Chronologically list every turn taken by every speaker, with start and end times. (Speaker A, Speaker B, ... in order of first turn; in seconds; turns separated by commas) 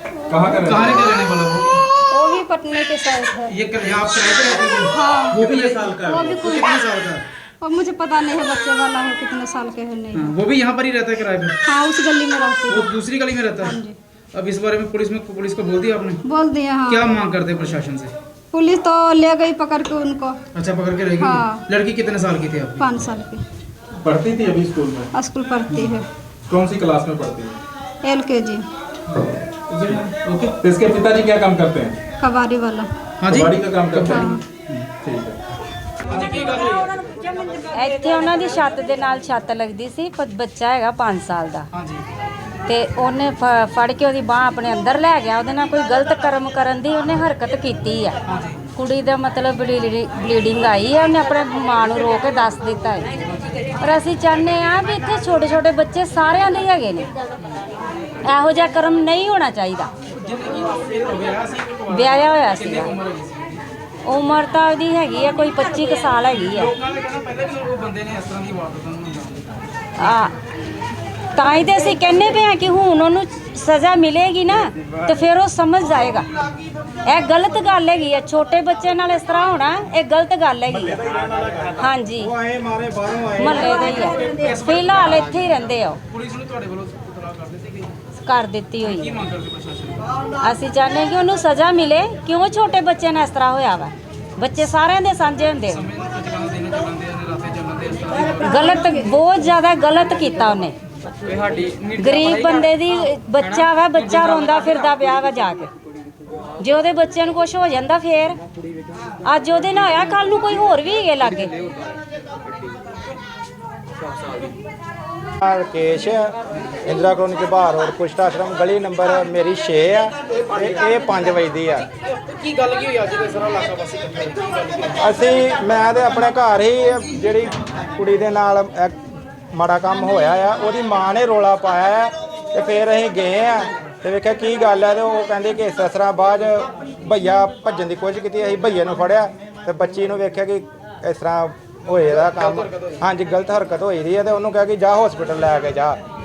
Speaker A: 0.3-1.1, Speaker B: 0.6-1.8, Speaker C: 2.1-3.5, Speaker B: 3.5-5.8, Speaker C: 4.9-6.7, Speaker A: 5.4-6.4, Speaker B: 6.4-7.2, Speaker C: 7.6-10.3, Speaker B: 10.1-11.6, Speaker C: 11.7-12.9, Speaker B: 12.7-13.8, Speaker C: 13.6-13.9, Speaker B: 14.3-16.2, Speaker C: 16.2-17.1, Speaker B: 16.9-18.1, Speaker C: 18.5-20.4, Speaker B: 20.5-22.9, Speaker C: 21.2-21.6, Speaker C: 22.8-23.4, Speaker A: 24.0-25.1, Speaker C: 25.1-26.1, Speaker A: 26.5-27.6, Speaker C: 28.0-28.6, Speaker A: 29.1-30.1, Speaker B: 29.9-30.5, Speaker A: 30.6-32.0, Speaker C: 32.2-32.9, Speaker B: 33.2-34.8, Speaker A: 33.3-34.3, Speaker C: 34.1-34.4, Speaker A: 34.9-35.4, Speaker B: 36.0-37.6, Speaker D: 37.7-41.7, Speaker B: 41.7-42.0, Speaker D: 42.7-48.1, Speaker B: 48.2-48.6, Speaker D: 48.8-53.0, Speaker D: 53.8-57.1, Speaker D: 58.2-59.9, Speaker B: 60.1-63.6, Speaker D: 61.9-62.9, Speaker D: 64.0-66.7, Speaker B: 66.4-69.5, Speaker D: 70.0-70.3, Speaker D: 71.3-76.2, Speaker D: 77.1-81.0, Speaker A: 80.7-82.0, Speaker D: 81.8-82.3, Speaker E: 82.2-84.3, Speaker D: 83.4-86.0, Speaker B: 84.1-85.4, Speaker B: 86.1-87.9, Speaker D: 88.2-89.1, Speaker B: 88.8-90.0, Speaker D: 90.4-95.8, Speaker B: 95.7-99.1, Speaker C: 98.2-99.1, Speaker D: 98.5-100.7, Speaker B: 101.2-104.9, Speaker D: 102.0-105.7, Speaker D: 106.6-108.4, Speaker D: 109.2-111.5, Speaker E: 115.4-116.3, Speaker E: 116.8-121.8, Speaker B: 120.5-121.0, Speaker B: 121.7-125.2, Speaker E: 125.0-129.0, Speaker E: 129.5-146.0, Speaker B: 142.0-143.0